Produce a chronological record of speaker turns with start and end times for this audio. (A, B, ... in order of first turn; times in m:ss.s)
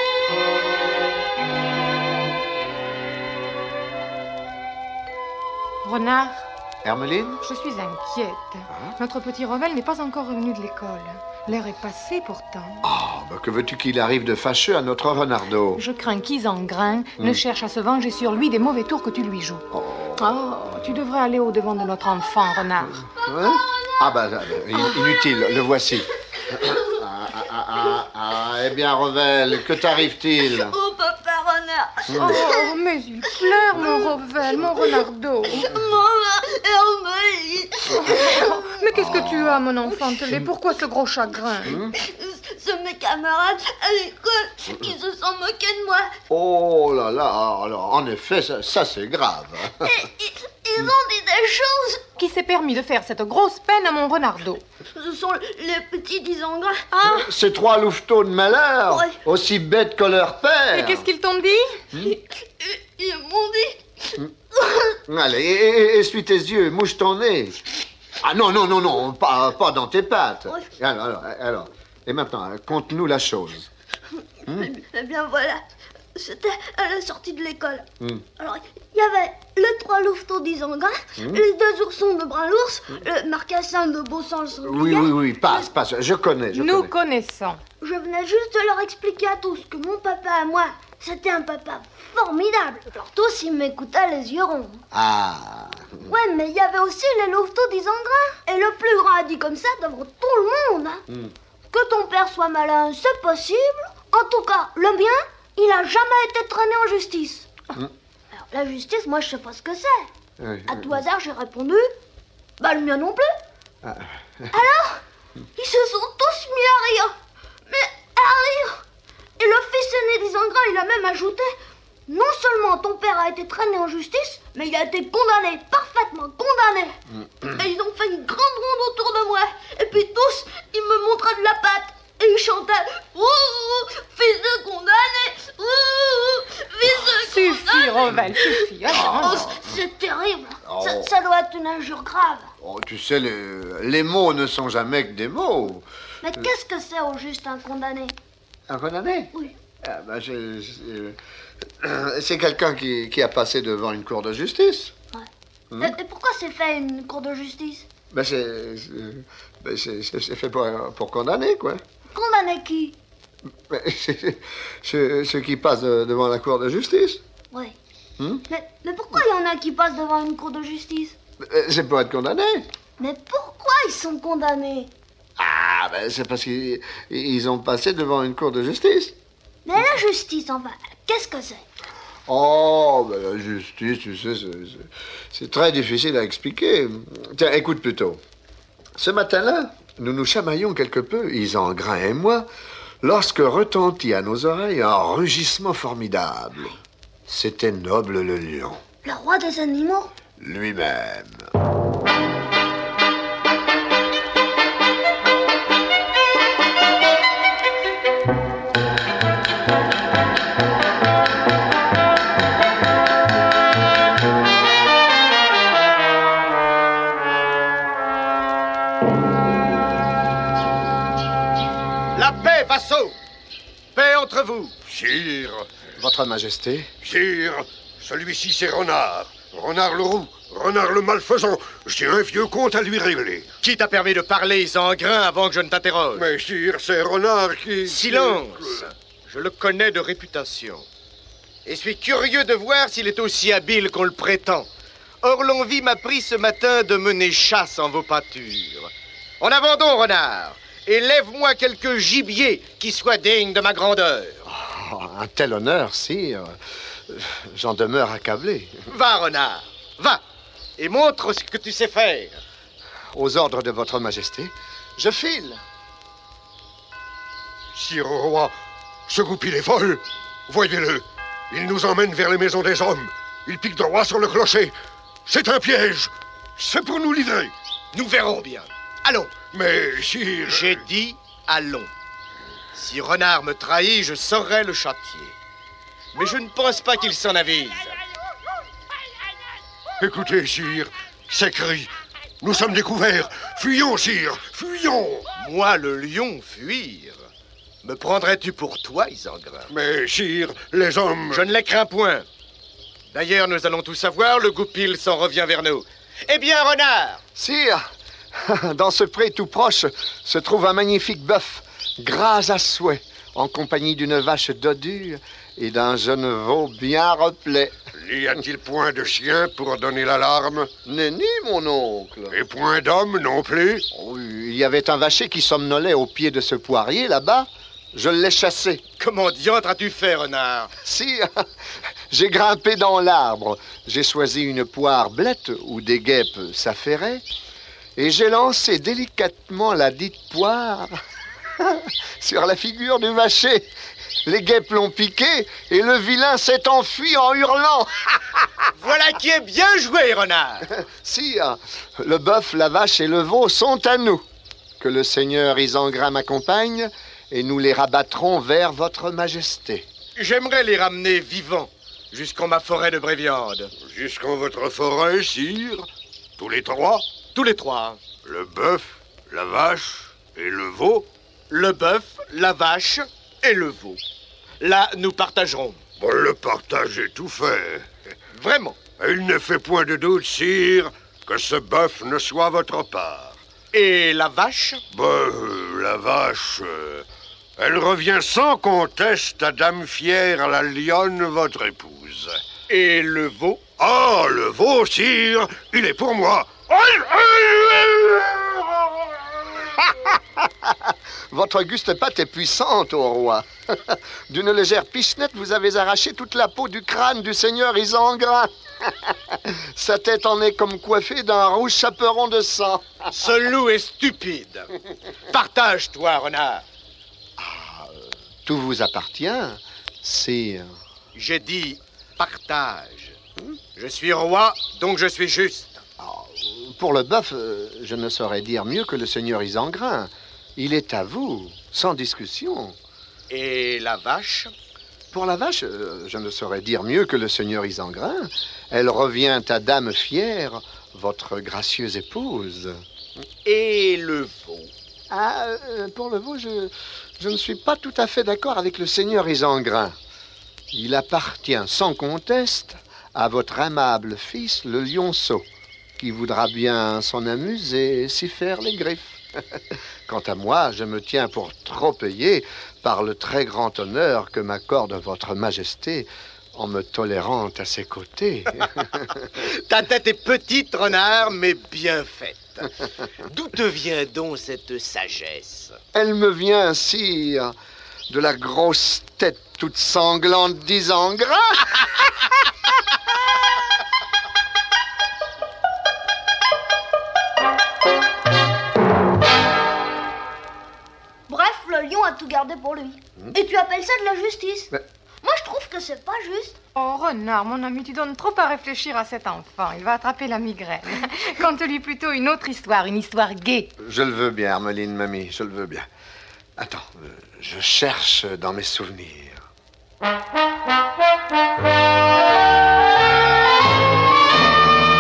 0:05.8-0:06.5 A
0:06.8-0:07.4 B
0:07.4-0:12.9 A
0:08.7-0:09.0 B
0:12.8-0:15.8 B
0:15.7-0:19.6 A
0:19.7-0:21.0 B
0:20.2-0:23.0 A
0:22.8-0:30.7 B
0:23.3-0:24.1 C
0:29.6-0:32.7 C
0:32.1-0:32.4 B
0:32.2-0:35.7 A
0:33.7-0:34.2 C
0:34.7-0:38.9 C
0:38.2-0:41.8 A
0:38.9-0:39.6 B
0:39.8-0:40.1 C
0:41.6-0:41.9 B
0:41.7-0:46.1 C
0:46.3-0:49.8 B
0:49.8-0:52.0 C
0:52.2-0:54.6 A
0:54.9-0:57.3 C
0:57.0-1:01.1 B
0:58.9-0:59.2 C
1:00.7-1:01.6 A
1:02.0-1:05.0 C
1:05.1-1:07.6 B
1:08.2-1:13.7 B
1:14.2-1:15.6 C
1:16.1-1:17.9 C
1:18.0-1:18.2 B
1:18.4-1:25.7 C
1:21.2-1:21.4 B
1:24.6-1:26.9 B
1:26.5-1:27.6 A
1:27.8-1:34.8 C
1:34.9-1:36.1 B
1:36.1-1:41.0 C
1:41.7-1:47.5 C
1:48.3-1:50.1 C
1:50.4-1:51.0 B
1:50.7-1:51.9 C
1:52.6-1:53.3 C
1:53.8-1:54.5 B
1:54.5-1:55.0 C
1:55.6-1:57.1 C
1:57.7-1:58.8 C
1:59.4-2:01.5 C
2:02.1-2:22.5 C
2:17.1-2:19.4 A
2:18.8-2:19.7 B
2:20.6-2:21.1 B
2:22.6-2:25.8 B
2:26.2-2:28.2 C
2:28.7-2:31.2 B
2:31.8-2:34.9 B
2:35.7-2:36.0 B
2:35.8-2:37.9 C
2:38.1-2:41.8 B
2:42.1-2:43.0 C
2:43.7-2:47.2 B
2:47.5-2:47.8 C
2:48.2-2:48.4 B
2:48.5-2:51.2 C
2:51.4-2:52.7 B
2:53.0-2:54.9 C
2:55.4-2:59.2 B
2:59.6-3:01.6 C
3:02.3-3:08.2 B
3:09.0-3:12.5 B
3:13.0-3:16.8 B
3:17.3-3:18.8 B
3:19.0-3:20.1 C
3:20.4-3:21.5 B
3:42.2-3:43.2 D
3:43.9-3:44.7 D
3:44.8-3:45.7 E
3:46.0-3:46.9 B
3:47.0-3:53.5 E
3:53.6-3:56.3 D
3:56.1-3:58.9 E
3:57.8-4:00.8 D
4:01.7-4:04.7 D
4:05.2-4:14.4 D
4:14.5-4:16.6 B
4:17.1-4:18.8 B
4:18.9-4:20.2 D
4:20.8-4:22.4 D
4:23.1-4:25.6 B
4:27.7-4:28.5 E
4:29.1-4:34.7 E
4:35.3-4:37.5 E
4:37.9-4:39.4 D
4:39.5-4:40.9 E
4:40.4-4:41.9 D
4:42.7-4:45.4 D
4:46.1-4:48.0 D
4:50.0-4:55.3 E
4:55.4-4:57.2 D
4:57.8-4:59.7 D
4:59.7-5:01.5 E
5:01.3-5:02.3 D
5:03.1-5:07.2 D
5:07.4-5:07.8 B
5:08.4-5:17.8 B
5:17.9-5:20.7 E
5:20.8-5:22.4 B
5:22.3-5:23.8 E
5:23.9-5:28.8 B
5:29.0-5:30.7 D
5:30.8-5:31.5 B
5:32.1-5:37.2 B
5:38.0-5:41.0 B
5:41.6-5:43.7 B
5:44.3-5:48.5 B
5:48.8-5:50.7 D
5:50.7-5:54.2 B
5:54.8-5:59.9 B
6:00.2-6:03.7 D
6:03.8-6:07.0 E
6:07.3-6:08.0 D
6:08.2-6:11.1 E
6:11.5-6:14.0 D
6:14.6-6:15.8 D
6:16.0-6:17.9 E
6:18.3-6:18.9 D
6:18.9-6:23.4 E
6:23.7-6:24.8 D
6:24.9-6:27.0 E
6:27.6-6:32.4 E
6:32.7-6:33.6 D
6:33.8-6:39.5 E
6:39.9-6:53.1 B
6:53.1-6:54.7 D
6:55.3-6:56.6 D
6:57.4-7:00.7 B
7:01.2-7:03.2 D
7:03.8-7:05.8 D
7:06.0-7:12.8 B
7:13.3-7:14.5 D
7:15.1-7:22.8 B
7:23.4-7:24.7 D
7:25.1-7:30.0 B
7:30.7-7:35.4 B
7:36.0-7:49.3 B
7:48.6-7:55.8 D
7:55.9-7:57.5 B
7:58.1-8:02.3 B
8:11.3-8:14.7 C
8:15.2-8:16.6 C
8:16.8-8:23.7 A
8:23.8-8:25.9 B
8:26.6-8:29.4 B